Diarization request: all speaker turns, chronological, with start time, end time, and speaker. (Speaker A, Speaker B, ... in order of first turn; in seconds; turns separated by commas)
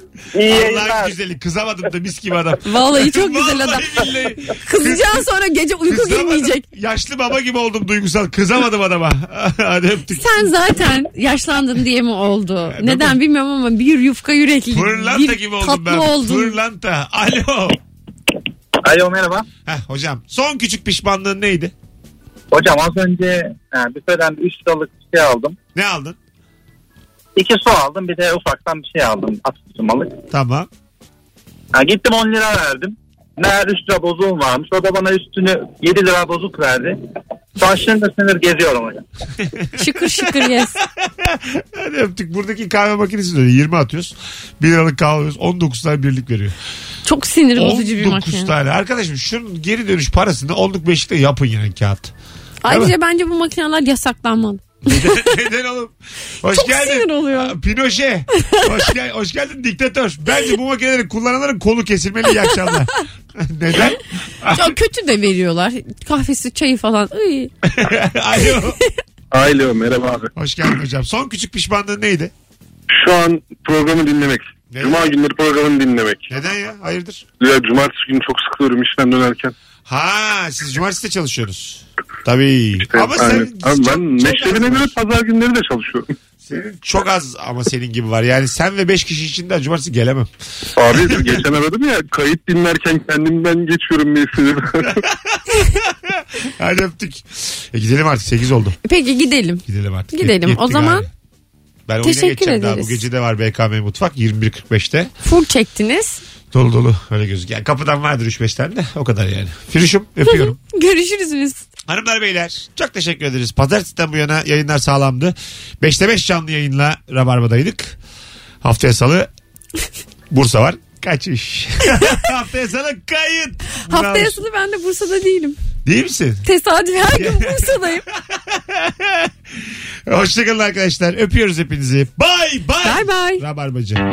Speaker A: 0.3-1.1, Speaker B: 0.4-5.2, Speaker C: 2.6-6.7, Speaker B: 5.9-10.5, Speaker C: 10.1-16.6, Speaker B: 12.7-13.2, Speaker B: 14.7-17.8, Speaker A: 18.8-19.5, Speaker B: 19.7-21.7, Speaker A: 22.5-25.6, Speaker B: 25.8-26.2, Speaker A: 27.4-30.2, Speaker B: 30.3-30.7, Speaker A: 31.7-37.0, Speaker A: 37.6-39.0, Speaker C: 39.8-40.8, Speaker B: 40.0-46.5, Speaker C: 47.0-48.5, Speaker B: 47.5-52.1, Speaker C: 52.6-55.3, Speaker B: 52.7-52.9, Speaker B: 54.9-64.7, Speaker C: 56.5-57.5, Speaker C: 62.4-62.7, Speaker C: 64.5-67.5, Speaker B: 67.7-68.8, Speaker C: 68.4-68.7, Speaker D: 69.3-70.3, Speaker B: 70.3-72.3, Speaker D: 73.0-76.3, Speaker B: 74.7-75.2, Speaker B: 76.3-77.3, Speaker D: 77.4-79.5, Speaker B: 79.9-85.0, Speaker D: 82.8-86.1, Speaker B: 86.4-90.3, Speaker D: 90.8-95.0, Speaker B: 90.9-91.4, Speaker B: 94.8-98.8, Speaker C: 98.8-101.1, Speaker B: 99.7-101.1, Speaker B: 101.9-105.1, Speaker C: 102.0-103.0, Speaker C: 105.2-106.2, Speaker B: 106.5-110.6, Speaker C: 110.2-111.6, Speaker B: 111.9-118.0, Speaker B: 118.6-119.3, Speaker B: 120.3-124.4, Speaker C: 123.8-125.6, Speaker B: 125.8-126.5, Speaker C: 126.4-128.0, Speaker B: 127.1-129.3, Speaker B: 130.1-134.0, Speaker C: 132.8-133.4